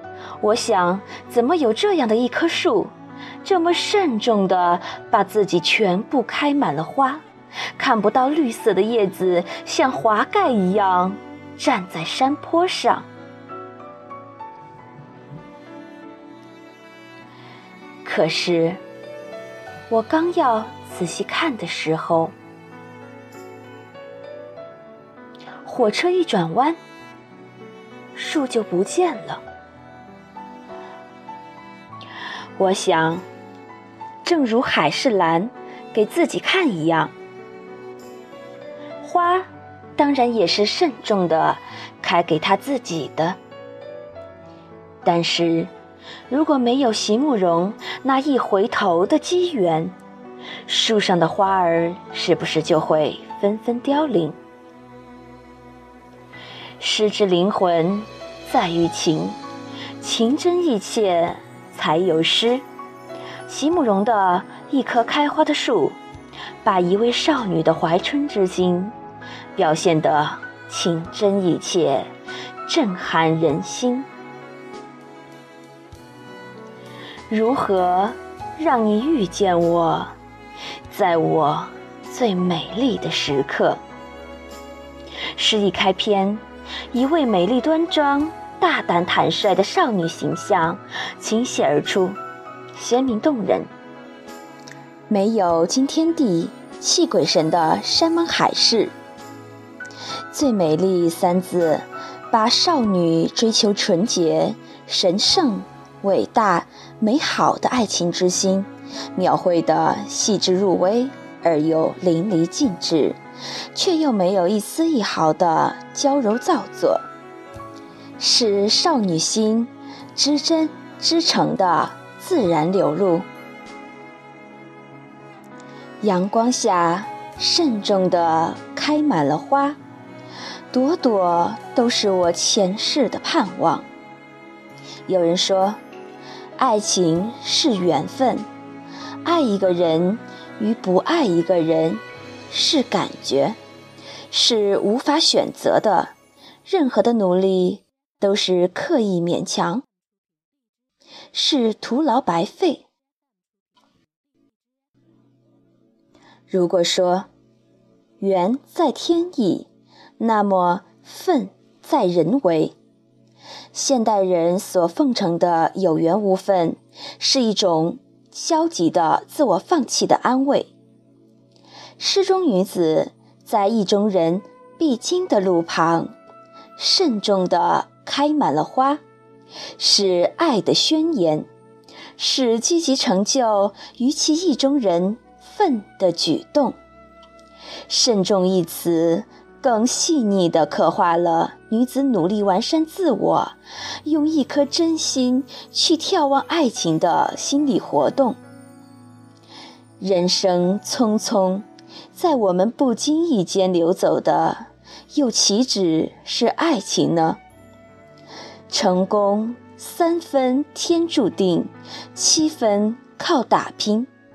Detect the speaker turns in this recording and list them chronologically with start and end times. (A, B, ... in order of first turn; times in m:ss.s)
0:00.4-0:02.9 A
0:03.4-0:07.2 A
0:07.8-0:13.1 A
0:18.0-0:18.8 A
0:19.9-0:22.3 A
0:25.6-0:26.8 A
0:28.1-0:29.4 A
0:32.6-0:33.2 A
0:34.2-0:37.1 A
0:39.0-0:43.4 A
0:45.0-0:45.7 A
0:46.3-0:50.0 A
0:50.6-0:54.4 A
0:56.8-0:59.4 A
1:00.0-1:02.6 A
1:03.4-1:06.0 A
1:06.6-1:08.9 A
1:09.5-1:12.1 A
1:12.6-1:14.1 A
1:17.3-1:20.1 A
1:20.9-1:23.8 A
1:25.3-1:32.2 A
1:32.7-1:33.7 A
1:35.1-1:38.9 A
1:40.3-1:53.2 A
1:53.7-1:57.0 A
1:58.2-2:03.3 A
2:06.0-2:09.8 A
2:10.7-2:13.9 A
2:15.1-2:15.8 A
2:16.6-2:18.5 A
2:19.2-2:23.6 A
2:24.3-2:26.1 A
2:26.6-2:29.8 A
2:31.3-2:32.8 A
2:36.5-2:37.3 A
2:38.2-2:42.8 A
2:43.7-2:50.7 A
2:52.0-2:56.1 A
2:56.8-2:59.0 A
2:59.8-3:01.5 A
3:02.2-3:06.8 A
3:07.9-3:18.4 A
3:20.0-3:27.4 A
3:28.7-3:34.1 A